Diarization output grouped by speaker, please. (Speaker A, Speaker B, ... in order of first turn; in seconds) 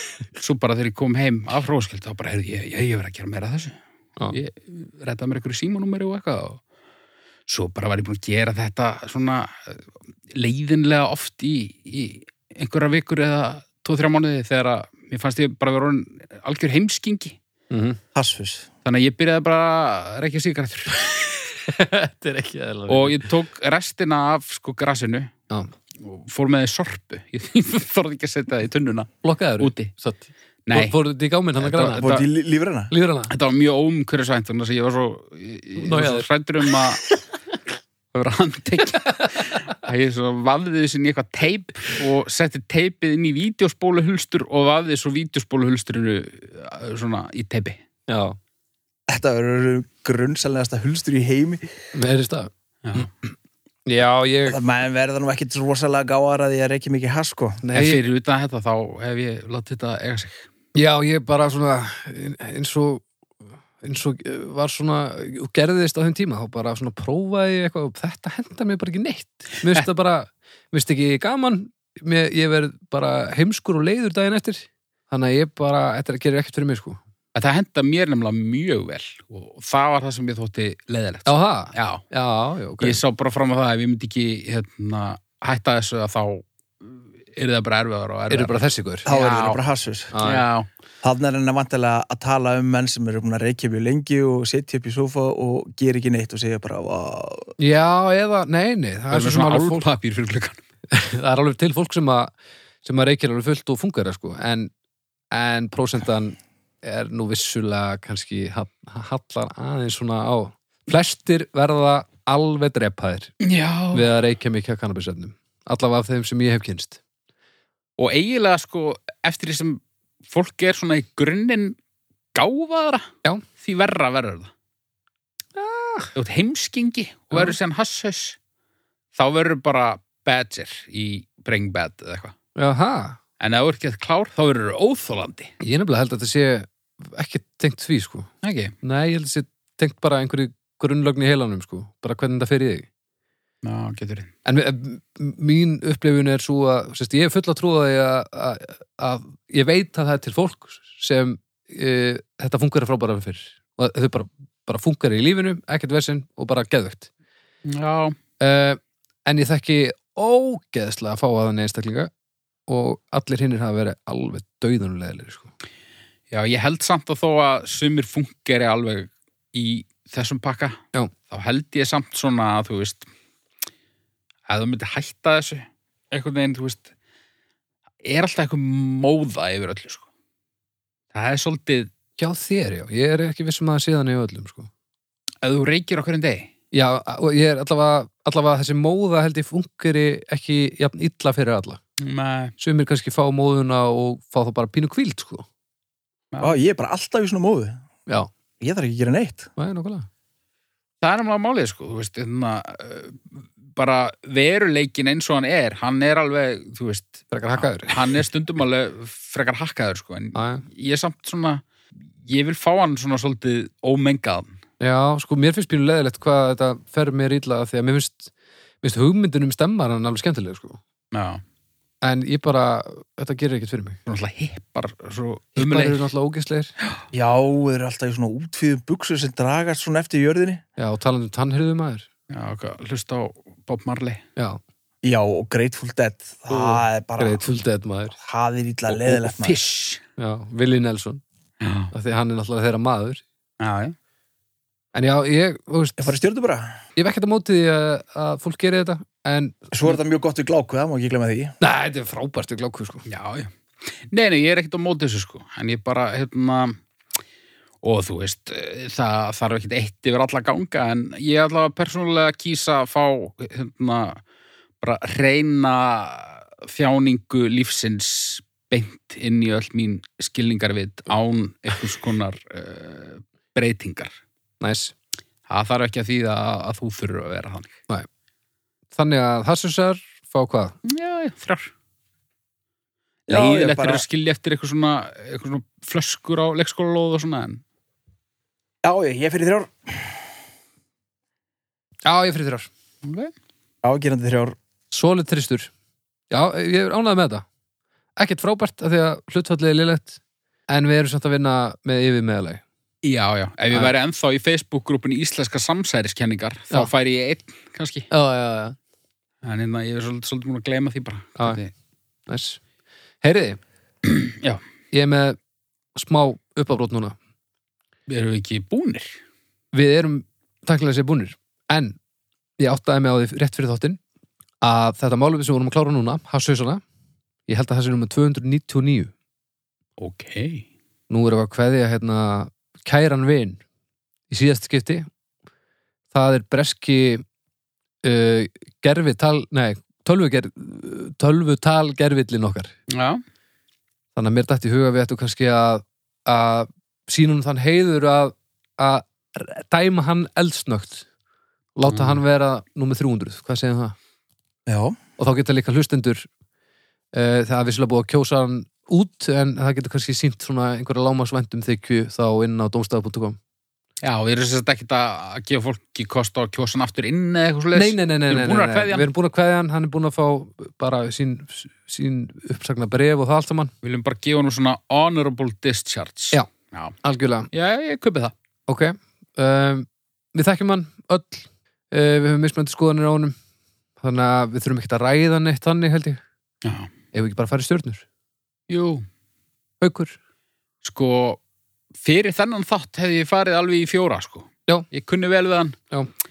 Speaker A: 0.3-3.8, 4.3-6.6, 7.5-9.8, 10.3-17.4, 18.9-20.9, 22.9-25.3, 26.0-29.9, 30.7-31.0, 31.6-32.2, 33.3-37.1, 38.1-47.8, 52.8-53.1, 57.7-60.5, 77.3-82.0, 82.8-89.6, 90.2-90.7, 99.1-100.6, 113.4-114.1, 118.0-121.8, 122.3-124.5, 126.2-128.4, 129.2-132.3, 133.4-135.5, 138.4-138.7, 143.6-144.3, 157.7-158.2, 166.3-173.1, 174.5-176.9, 178.0-180.1, 181.1-181.9, 185.4-186.5, 192.0-192.5, 196.3-196.6, 201.0-211.6, 212.2-214.6, 221.1-221.4, 224.1-226.1, 232.3-234.2, 238.9-240.0, 241.6-241.9, 243.6-243.9, 253.1-253.5, 254.1-256.8, 257.8-264.2, 264.8-274.2, 275.5-277.8, 280.8-281.7, 283.3-287.6, 293.0-293.3, 303.0-308.1, 309.4-311.7, 314.0-314.6, 318.1-319.2, 330.0-330.7, 342.9-343.2, 351.9-352.2, 364.0-369.1, 373.8-376.9, 377.5-378.3, 386.6-386.9, 388.7-389.1, 390.8-391.4, 392.0-395.8
Speaker B: 17.7-18.0, 21.0-23.3, 29.2-32.2, 32.9-33.3, 35.8-36.3, 39.0-39.3, 48.1-48.4, 51.9-53.3, 53.9-54.6, 57.6-58.0, 60.8-63.0, 63.8-77.0, 81.3-83.0, 88.3-89.1, 90.1-90.5, 97.6-99.9, 100.9-104.7, 105.3-113.3, 113.9-117.0, 125.6-126.1, 132.6-133.2, 135.6-138.3, 138.8-142.9, 144.4-157.1, 158.4-162.1, 162.7-165.5, 182.2-184.7, 186.7-191.8, 192.6-195.5, 199.6-200.1, 207.3-208.0, 210.3-210.6, 214.8-218.3, 218.8-220.8, 222.0-224.0, 225.6-226.7, 230.8-232.1, 236.5-238.2, 240.2-241.2, 241.9-243.2, 244.9-246.1, 247.0-250.0, 251.6-253.1, 274.6-274.9, 278.9-280.8, 292.1-292.7, 294.9-295.7, 296.3-297.4, 298.2-302.6, 308.1-308.8, 312.3-312.6, 313.2-313.6, 314.9-315.4, 315.9-317.2, 319.7-322.0, 322.6-324.0, 324.6-326.8, 327.5-329.1, 331.1-333.6, 334.3-335.1, 336.1-337.2, 338.0-342.7, 344.2-351.1, 351.8-353.9, 355.2-356.3, 357.1-363.4, 367.8-373.7, 377.0-377.5, 378.7-383.4, 384.0-386.2, 387.1-388.0, 389.8-390.1
Speaker C: 18.1-18.7, 32.0-32.9, 49.1-51.6, 54.5-57.6, 89.1-90.2, 91.0-97.5, 196.4-197.8, 198.6-199.5, 227.1-230.6, 235.0-237.4, 238.2-239.6, 246.0-246.8, 249.7-251.6, 283.3-284.0, 288.8-290.2, 293.8-294.6, 354.7-355.0